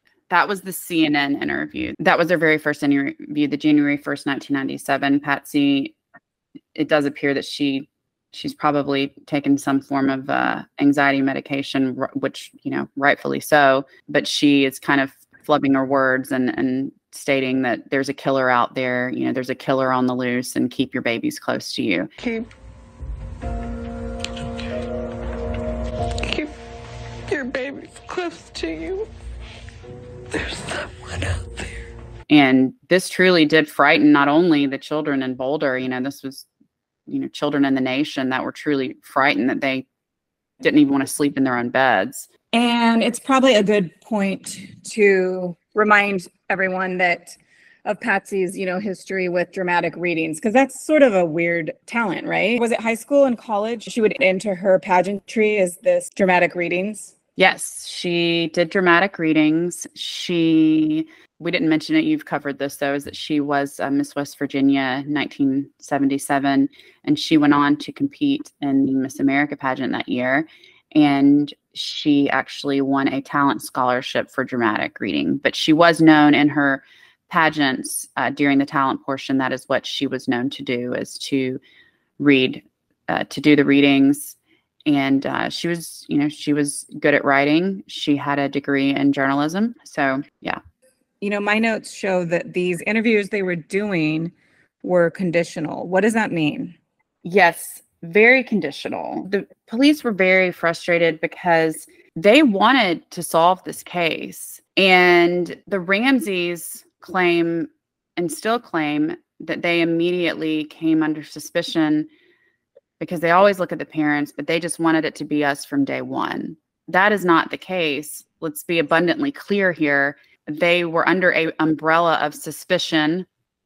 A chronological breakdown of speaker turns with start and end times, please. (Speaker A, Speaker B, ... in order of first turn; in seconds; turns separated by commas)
Speaker A: 0.3-6.0, Speaker A: 6.8-22.1, Speaker B: 22.2-22.5, Speaker B: 26.2-26.5, Speaker B: 27.3-29.1, Speaker B: 30.3-31.7, Speaker A: 32.3-36.5, Speaker A: 37.1-39.9, Speaker A: 40.6-42.3, Speaker C: 42.5-57.1, Speaker A: 57.4-81.6, Speaker A: 82.2-90.6, Speaker C: 91.2-96.8, Speaker A: 97.2-112.1, Speaker A: 113.0-123.3